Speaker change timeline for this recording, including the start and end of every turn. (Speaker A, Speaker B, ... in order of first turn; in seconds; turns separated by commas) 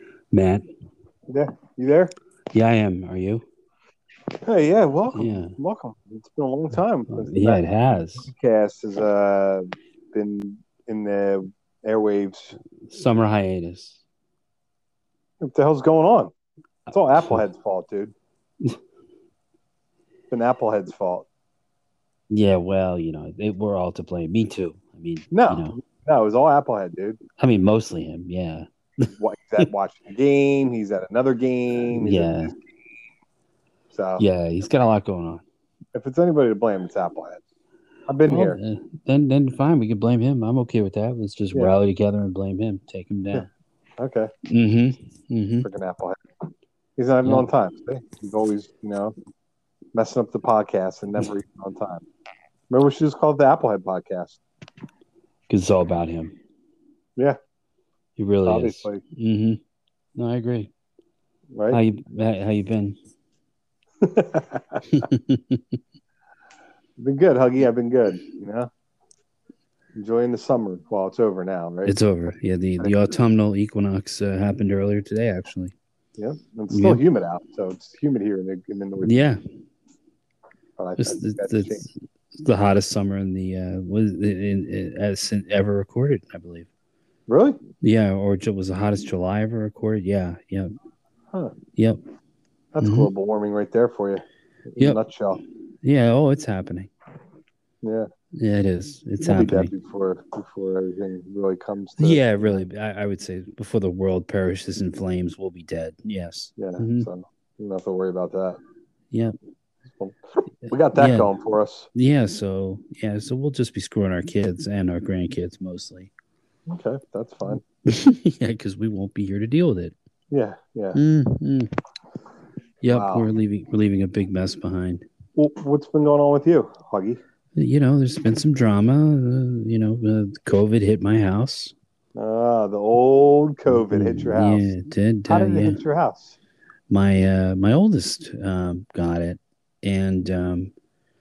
Speaker A: 0.3-0.7, Speaker B: 1.3-2.1, Speaker A: 2.5-3.4, Speaker B: 4.4-7.6, Speaker A: 5.1-5.5, Speaker A: 7.1-8.3, Speaker B: 8.2-12.6, Speaker A: 12.8-14.0, Speaker B: 15.4-16.3, Speaker B: 16.9-18.1, Speaker A: 17.1-17.4, Speaker B: 20.3-21.3, Speaker A: 22.3-25.8, Speaker B: 25.3-27.2, Speaker A: 27.4-29.6, Speaker B: 29.2-32.5, Speaker A: 32.0-32.5, Speaker B: 33.9-34.2, Speaker A: 34.2-35.4, Speaker B: 35.9-37.4, Speaker B: 38.1-38.6, Speaker A: 38.2-43.5, Speaker B: 44.0-44.3, Speaker A: 44.5-45.7, Speaker B: 45.6-46.2, Speaker B: 47.0-49.1, Speaker B: 49.9-52.0, Speaker B: 52.7-54.4, Speaker A: 55.5-56.4, Speaker A: 58.2-59.6, Speaker B: 58.4-59.0, Speaker A: 60.1-60.7, Speaker B: 61.5-61.8, Speaker A: 61.7-63.0, Speaker B: 64.0-64.8, Speaker A: 64.9-65.8, Speaker B: 67.0-68.7, Speaker B: 70.0-71.9, Speaker A: 71.8-75.7, Speaker B: 76.2-79.2, Speaker A: 76.7-77.0, Speaker A: 79.0-79.4, Speaker B: 80.8-81.8, Speaker A: 81.0-86.7, Speaker B: 87.3-87.6, Speaker A: 87.8-90.7, Speaker B: 92.7-95.4, Speaker A: 92.8-93.1, Speaker A: 95.8-96.9, Speaker B: 97.8-98.1, Speaker A: 98.3-99.7, Speaker B: 99.2-102.6, Speaker A: 102.0-107.1, Speaker B: 106.6-108.6, Speaker B: 110.0-111.9, Speaker A: 110.9-111.3, Speaker A: 111.9-116.1, Speaker B: 116.7-117.6, Speaker A: 117.8-119.9, Speaker B: 120.3-121.0, Speaker A: 120.9-121.7, Speaker A: 122.8-125.0, Speaker B: 122.8-123.3, Speaker B: 125.3-127.2, Speaker A: 127.5-131.7, Speaker B: 132.1-134.7, Speaker A: 133.7-135.8, Speaker B: 135.3-136.3, Speaker A: 136.9-140.7